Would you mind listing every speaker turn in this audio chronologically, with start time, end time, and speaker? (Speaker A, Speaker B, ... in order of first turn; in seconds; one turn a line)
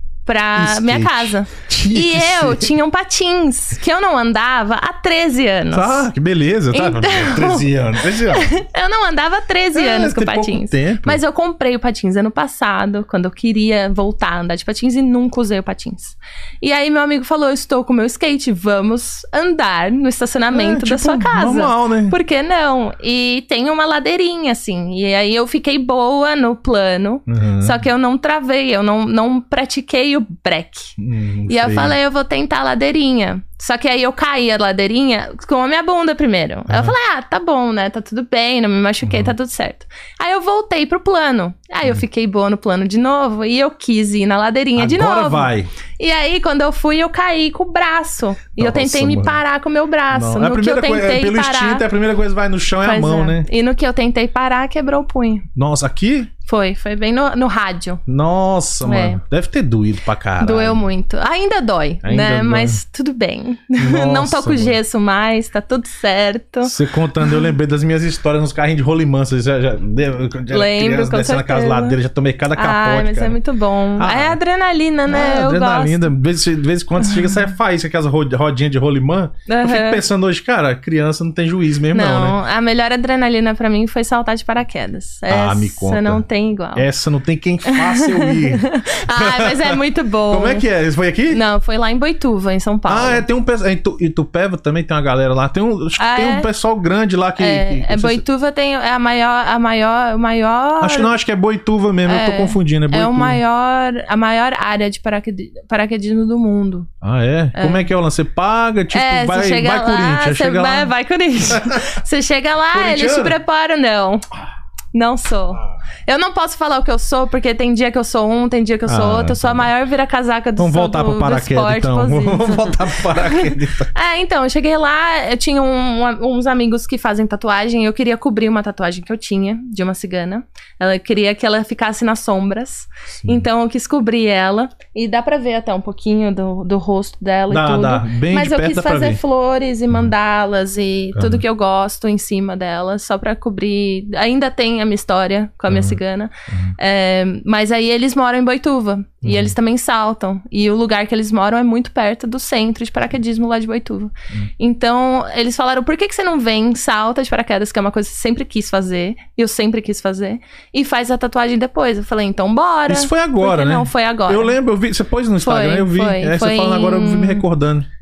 Speaker A: 0.2-6.1
Speaker B: 0.5-2.7
Speaker B: 5.7-8.5
Speaker A: 6.7-30.9
Speaker B: 9.7-11.2
Speaker B: 20.5-22.1
Speaker B: 27.3-27.8
Speaker B: 31.0-32.0
Speaker A: 31.5-51.8
Speaker B: 36.7-37.0
Speaker B: 39.0-39.3
Speaker B: 44.8-45.7
Speaker B: 48.6-49.4
Speaker B: 50.1-53.5
Speaker A: 52.8-55.5
Speaker B: 55.5-56.3
Speaker A: 56.5-58.0
Speaker B: 58.1-60.8
Speaker A: 58.8-59.2
Speaker A: 60.4-66.7
Speaker B: 62.0-62.8
Speaker B: 63.8-64.8
Speaker B: 66.6-73.4
Speaker A: 70.5-72.0
Speaker A: 72.5-76.1
Speaker B: 74.0-74.4
Speaker B: 75.1-82.4
Speaker A: 79.5-80.0
Speaker A: 81.9-86.8
Speaker B: 85.3-86.2
Speaker B: 86.7-91.4
Speaker A: 87.6-90.6
Speaker A: 91.3-93.2
Speaker B: 92.9-98.2
Speaker A: 96.0-96.5
Speaker A: 97.4-101.1
Speaker B: 100.8-103.4
Speaker A: 102.0-106.9
Speaker B: 107.0-110.9
Speaker A: 107.5-107.9
Speaker A: 108.9-114.2
Speaker B: 111.5-111.8
Speaker B: 112.7-113.4
Speaker A: 114.9-164.5
Speaker B: 118.9-119.7
Speaker B: 120.6-123.9
Speaker B: 133.2-133.4
Speaker B: 137.5-139.2
Speaker B: 141.1-141.4
Speaker B: 145.7-146.7
Speaker B: 149.2-149.6
Speaker B: 162.9-167.9
Speaker A: 165.4-167.4